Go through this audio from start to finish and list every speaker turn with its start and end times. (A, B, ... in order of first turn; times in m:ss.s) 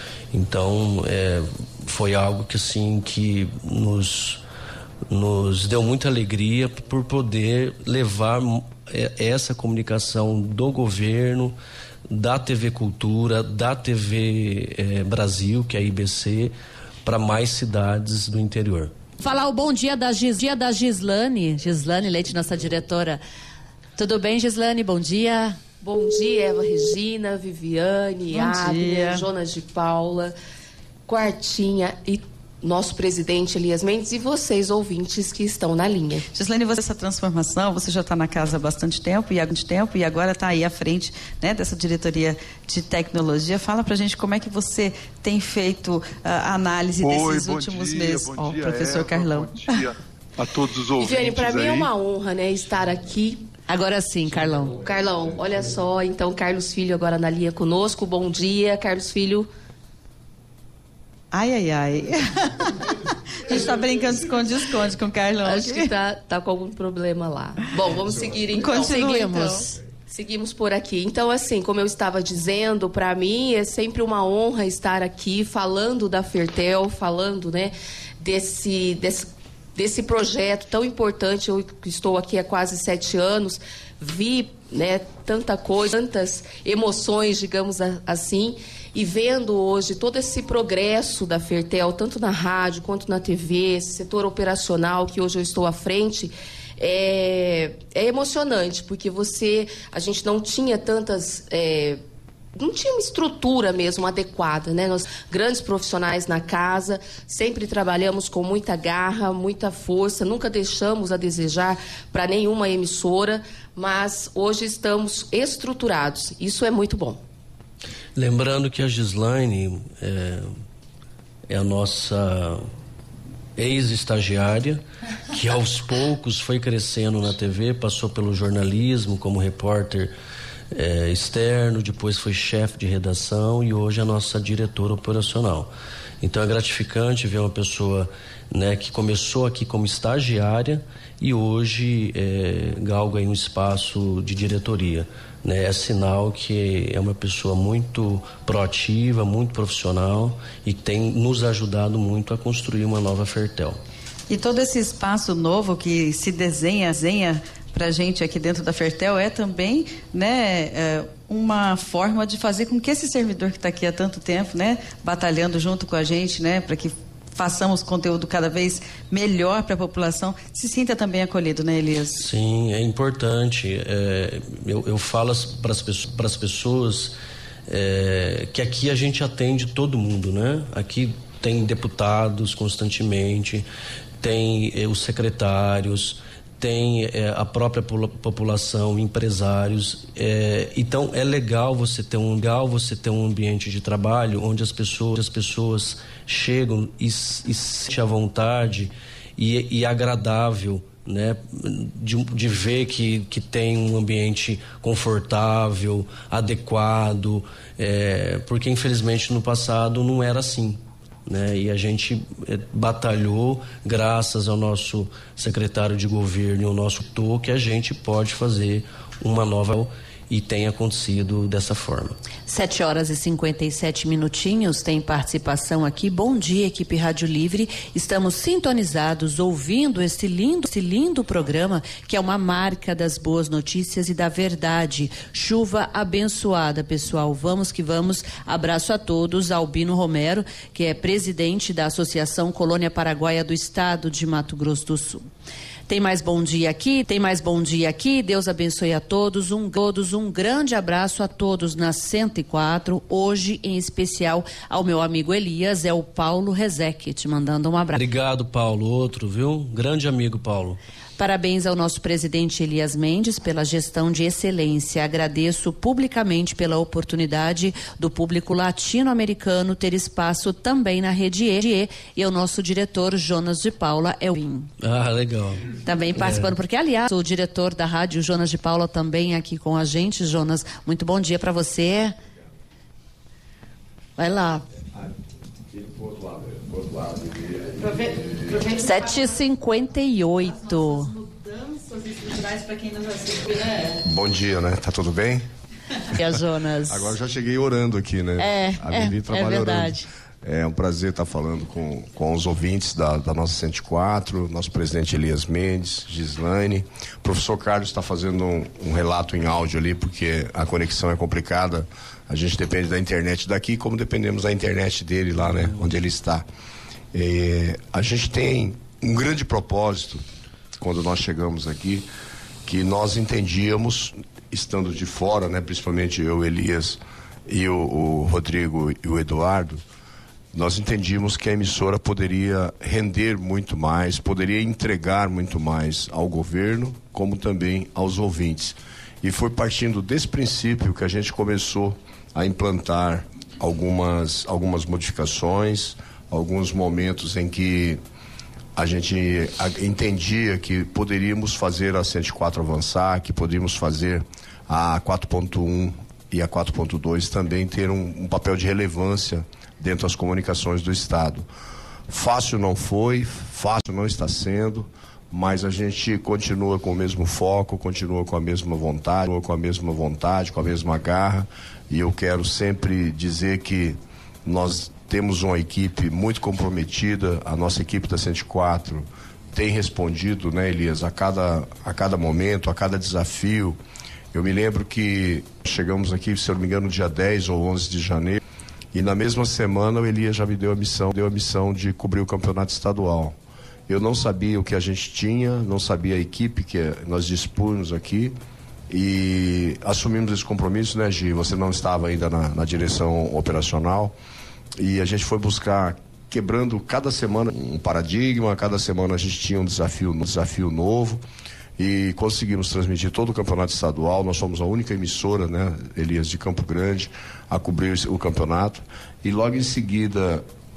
0:00.3-0:04.4 A
0:05.1-0:11.6 A
0:12.1-0:16.5 A
0:17.0-0:18.9 A
0:19.2-0:23.2 B
0:24.0-0:25.6 B
0:25.8-0:30.3 C
0:28.3-0:29.3 D
0:31.1-0:36.3 C
0:36.3-0:49.9 D
0:47.0-0:51.9 E
0:51.0-0:53.4 C
0:53.7-0:54.8 B
0:54.8-0:59.5 C
1:01.3-1:05.9 D
1:05.4-1:09.4 C
1:08.5-1:09.7 D
1:08.9-1:09.7 B
1:10.1-1:42.0 C
1:42.6-1:57.2 C
1:58.2-2:00.5 A
2:01.5-2:02.6 A
2:03.6-2:10.1 A
2:10.7-2:15.7 A
2:16.2-2:33.8 A
2:34.3-2:52.3 D
2:52.2-2:57.2 A
2:57.7-3:03.7 A
3:04.2-3:42.2 A
3:42.5-4:05.2 B
4:05.9-4:18.0 B
4:18.0-4:20.8 A
4:21.2-4:34.7 B
4:34.8-4:36.5 A
4:35.8-4:42.2 B
4:44.2-4:44.6 B
4:45.7-4:48.6 F
4:47.8-4:49.4 D
4:48.8-4:51.1 B
4:50.4-4:54.0 D
4:54.0-4:55.5 F
4:56.1-4:57.1 B
4:56.9-5:16.4 F
4:58.4-5:00.1 B
5:17.1-5:20.2 F
5:20.8-5:22.1 F
5:22.6-5:29.8 F
5:30.5-5:48.0 F
5:48.8-6:01.5 F
6:02.1-6:23.8 F
6:24.3-6:28.4 F
6:28.9-6:33.4 F
6:33.9-6:38.4 F
6:38.9-6:44.2 F
6:44.8-6:51.2 F
6:51.8-7:00.5 F